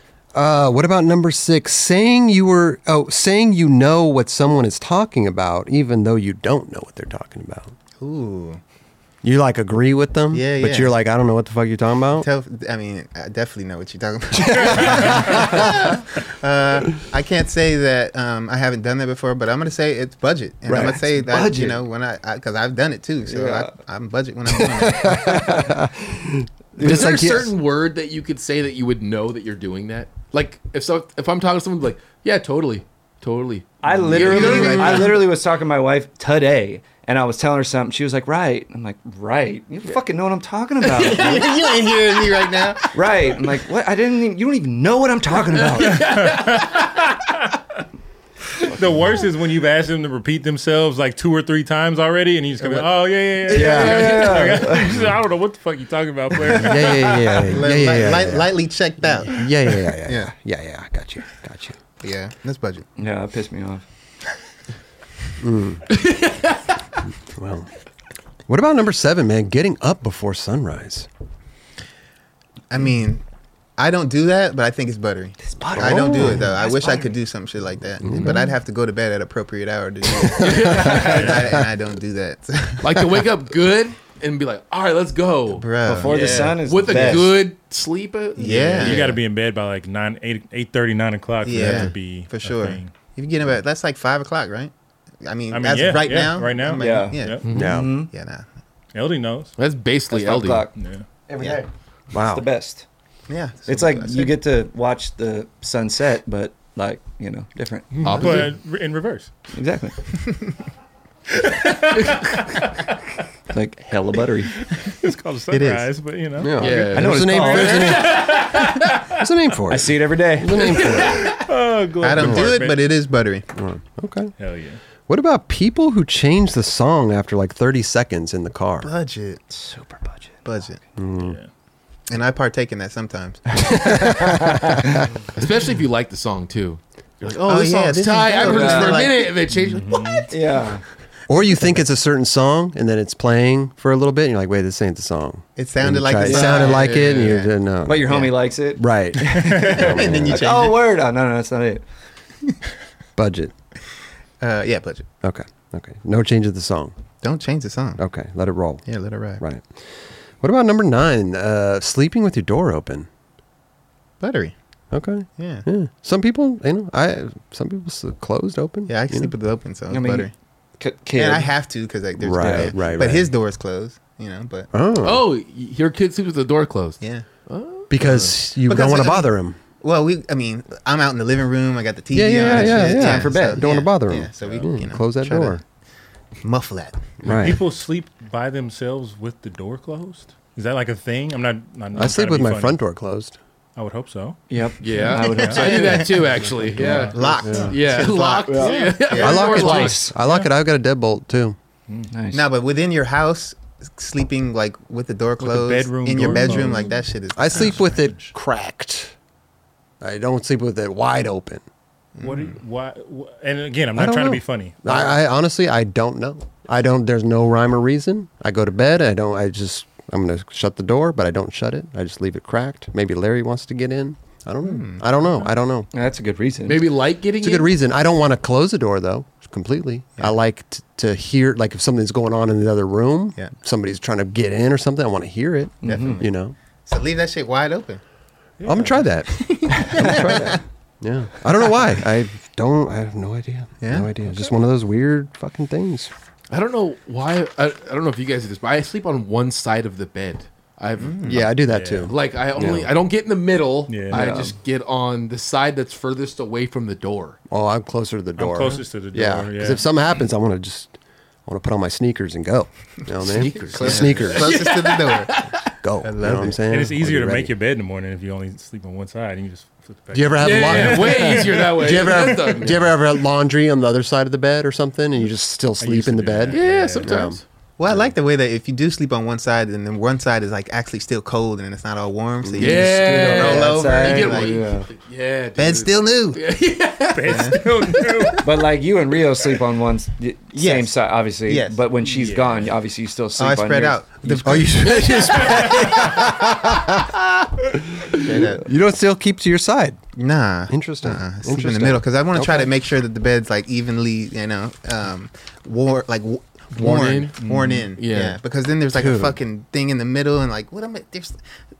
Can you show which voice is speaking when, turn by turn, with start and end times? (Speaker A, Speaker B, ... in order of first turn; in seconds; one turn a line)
Speaker A: 0.3-7.7
Speaker B: 8.0-8.6
Speaker A: 9.2-12.3
Speaker B: 10.3-10.9
Speaker B: 12.2-25.7
Speaker A: 14.3-15.9
Speaker C: 14.5-15.6
Speaker A: 20.7-21.7
Speaker D: 21.3-21.8
Speaker D: 23.2-23.7
Speaker A: 24.5-27.5
Speaker D: 26.8-27.0
Speaker E: 26.8-35.1
Speaker D: 33.8-41.5
Speaker B: 34.1-35.2
Speaker A: 34.5-35.1
Speaker E: 40.8-42.5
Speaker B: 41.0-43.0
Speaker D: 42.9-46.0
Speaker E: 45.6-47.0
Speaker C: 45.8-47.8
Speaker C: 48.6-57.5
Speaker A: 53.5-54.3
Speaker D: 53.5-55.0
Speaker A: 56.5-58.5
Speaker B: 57.5-60.3
Speaker A: 59.2-61.8
Speaker B: 62.0-62.9
Speaker D: 63.0-63.8
Speaker A: 65.4-66.0
Speaker E: 65.9-66.7
Speaker A: 67.3-67.7
Speaker A: 68.5-71.1
Speaker B: 72.7-73.2
Speaker B: 73.8-83.0
Speaker D: 75.4-77.2
Speaker A: 75.7-76.5
Speaker A: 78.0-78.4
Speaker A: 80.2-81.6
Speaker E: 80.4-81.3
Speaker C: 80.9-81.5
Speaker E: 82.8-89.2
Speaker B: 85.5-87.3
Speaker D: 85.8-87.3
Speaker B: 88.4-89.2
Speaker C: 88.5-92.9
Speaker B: 91.4-94.7
Speaker B: 95.2-97.4
Speaker C: 95.5-97.5
Speaker D: 96.8-98.1
Speaker E: 97.4-97.7
Speaker A: 97.5-97.9
Speaker B: 98.0-98.5
Speaker C: 98.9-99.5
Speaker E: 99.6-100.7
Speaker D: 100.1-100.7
Speaker C: 100.7-101.0
Speaker D: 101.3-102.8
Speaker A: 102.1-102.5
Speaker B: 103.3-104.3
Speaker D: 103.7-107.9
Speaker C: 108.0-109.3
Speaker E: 108.0-108.5
Speaker B: 108.2-108.5
Speaker D: 109.5-110.0
Speaker C: 111.3-113.2
Speaker D: 113.5-114.5
Speaker C: 114.5-119.2
Speaker B: 115.5-115.9
Speaker A: 116.4-118.3
Speaker E: 116.6-118.9
Speaker D: 116.9-118.1
Speaker A: 119.1-121.4
Speaker D: 119.7-120.8
Speaker E: 120.8-121.3
Speaker C: 121.2-122.9
Speaker B: 122.0-123.5
Speaker A: 122.2-122.5
Speaker A: 123.5-124.3
Speaker C: 124.4-124.8
Speaker A: 125.1-128.9
Speaker B: 128.8-129.4
Speaker D: 129.5-130.4
Speaker B: 130.4-130.8
Speaker A: 130.9-131.4
Speaker C: 131.2-131.5
Speaker B: 132.1-133.7
Speaker A: 133.7-135.1
Speaker D: 134.0-135.0
Speaker E: 135.3-140.3
Speaker B: 137.4-139.3
Speaker D: 138.4-139.1
Speaker C: 139.5-140.3
Speaker D: 140.3-140.8
Speaker A: 141.3-150.4
Speaker B: 145.6-147.5
Speaker D: 146.2-146.8
Speaker E: 146.4-147.4
Speaker D: 147.8-151.8
Speaker B: 148.1-148.3
Speaker C: 149.4-149.9
Speaker B: 149.7-150.8
Speaker A: 153.2-153.5
Speaker B: 154.4-155.1
Speaker A: 155.2-156.9
Speaker B: 157.2-158.0
Speaker A: 158.0-158.8
Speaker B: 158.8-159.4
Speaker A: 159.4-159.7
Speaker A: 160.4-163.1
Speaker B: 164.2-164.5
Speaker A: 164.9-169.3
Speaker B: 165.4-165.7
Speaker B: 168.9-170.3
Speaker D: 169.9-171.5
Speaker B: 171.2-174.7
Speaker A: 172.2-173.3
Speaker D: 172.4-172.7
Speaker A: 174.7-175.2
Speaker E: 175.0-178.4
Speaker A: 177.9-179.6
Speaker B: 178.7-185.6
Speaker A: 182.1-185.6
Speaker D: 182.4-183.6
Speaker B: 186.4-187.2
Speaker A: 187.2-187.6
Speaker C: 187.2-192.8
Speaker A: 191.9-193.4
Speaker C: 193.8-194.4
Speaker D: 194.5-196.2
Speaker E: 194.8-200.1
Speaker B: 195.0-199.5
Speaker C: 195.1-195.7
Speaker A: 196.5-197.8
Speaker C: 196.8-197.7
Speaker D: 198.5-200.1
Speaker C: 198.6-199.0
Speaker A: 199.2-201.6
Speaker C: 199.8-200.5
Speaker C: 201.9-202.1
Speaker D: 202.1-202.5
Speaker B: 202.3-207.9
Speaker C: 205.4-206.9
Speaker A: 207.3-209.1
Speaker C: 207.5-208.3
Speaker A: 210.0-211.6
Speaker B: 212.2-212.6
Speaker C: 212.2-214.9
Speaker A: 213.9-225.9
Speaker B: 224.6-225.1
Speaker D: 225.9-226.8
Speaker E: 226.7-227.7
Speaker A: 227.4-236.5
Speaker D: 235.8-236.2
Speaker B: 235.8-236.3
Speaker B: 236.8-238.0
Speaker C: 238.6-239.0
Speaker A: 238.6-246.1
Speaker B: 239.3-240.6
Speaker B: 243.8-244.1
Speaker E: 246.5-251.5
Speaker B: 251.0-251.5
Speaker A: 251.2-252.9
Speaker C: 251.7-252.1
Speaker E: 252.1-257.4
Speaker C: 253.9-254.2
Speaker D: 254.1-254.6
Speaker A: 257.5-264.7
Speaker C: 258.4-259.9
Speaker E: 263.2-265.7
Speaker B: 263.6-265.4
Speaker A: 265.8-267.5
Speaker B: 266.0-266.6
Speaker C: 266.6-272.7
Speaker A: 270.1-278.1
Speaker E: 270.4-272.9
Speaker C: 275.8-277.3
Speaker E: 276.5-277.4
Speaker B: 277.8-284.6
Speaker A: 282.4-283.6
Speaker E: 282.6-288.1
Speaker D: 283.1-284.9
Speaker B: 285.6-286.4
Speaker C: 287.1-288.5
Speaker B: 287.3-287.6
Speaker D: 288.4-294.6
Speaker B: 290.6-291.8
Speaker C: 292.0-292.7
Speaker B: 293.4-296.0
Speaker A: 294.4-300.0
Speaker C: 295.2-296.3
Speaker B: 298.1-298.7
Speaker B: 300.1-311.4
Speaker A: 300.7-302.7
Speaker E: 306.7-307.3
Speaker C: 307.4-307.9
Speaker E: 308.0-308.4
Speaker A: 308.9-309.4